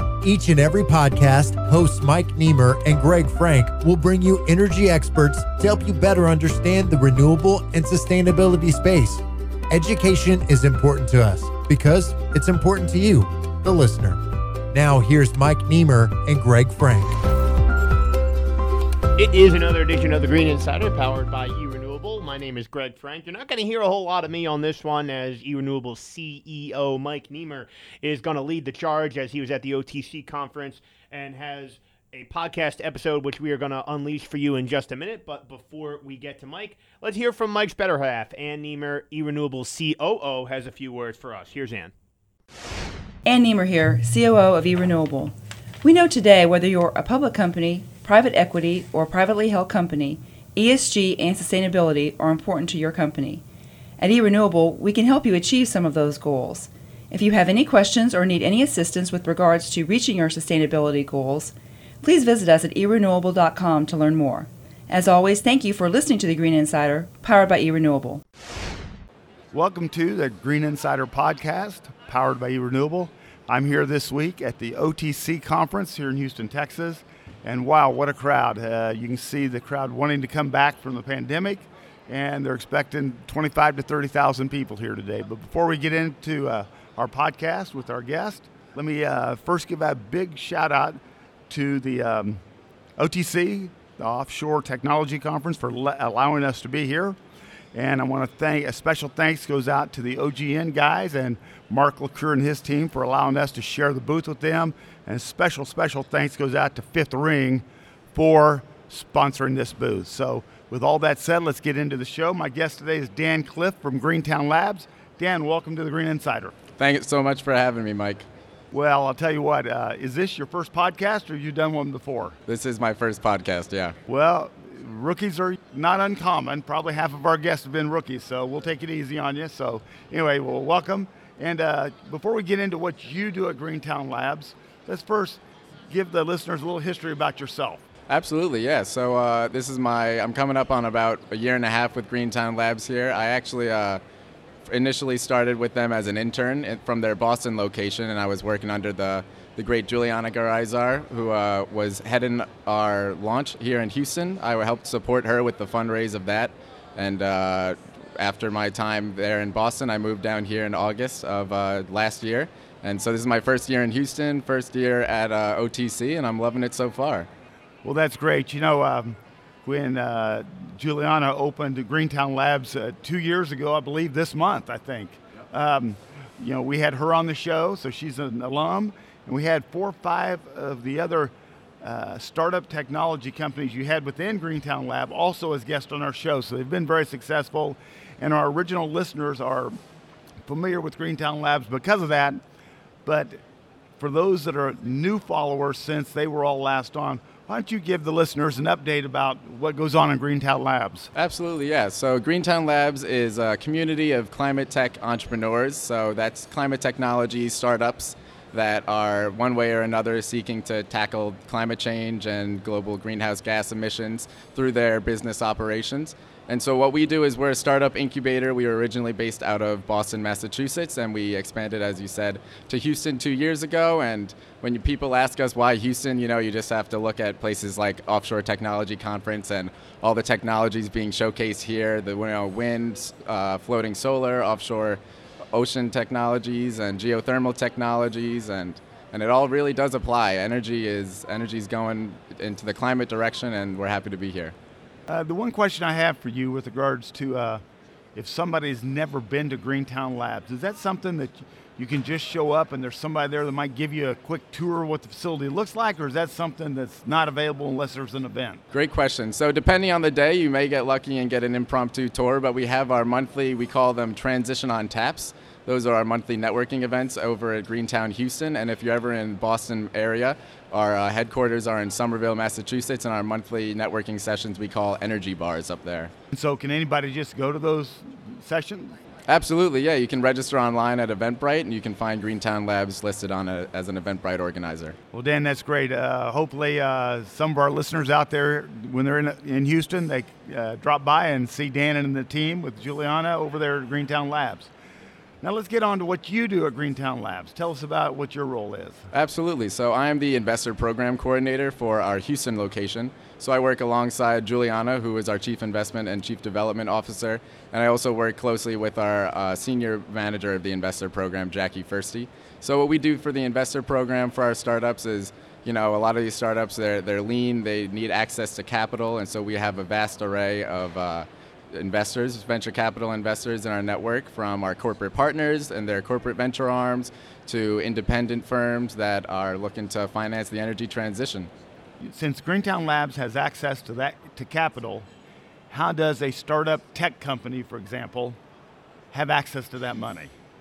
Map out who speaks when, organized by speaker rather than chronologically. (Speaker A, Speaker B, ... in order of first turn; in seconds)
Speaker A: 0.2-14.2, 14.7-17.2
Speaker B: 19.2-41.9
Speaker C: 43.3-53.4, 54.0-68.2
Speaker D: 69.5-92.4, 93.0-97.2, 97.7-116.5, 118.7-122.4, 124.1-137.8, 167.8-189.8, 190.4-192.4, 193.1-193.4, 194.0-201.1, 245.1-247.6, 248.2-258.6, 276.3-278.9, 285.1-294.7, 295.4-299.1, 332.0-335.1, 335.7-338.4, 339.1-340.3
Speaker E: 116.8-118.2, 122.5-124.0, 138.1-144.0, 144.7-167.3, 201.1-235.0, 235.5-244.5, 258.7-276.1, 279.3-285.0, 299.1-331.5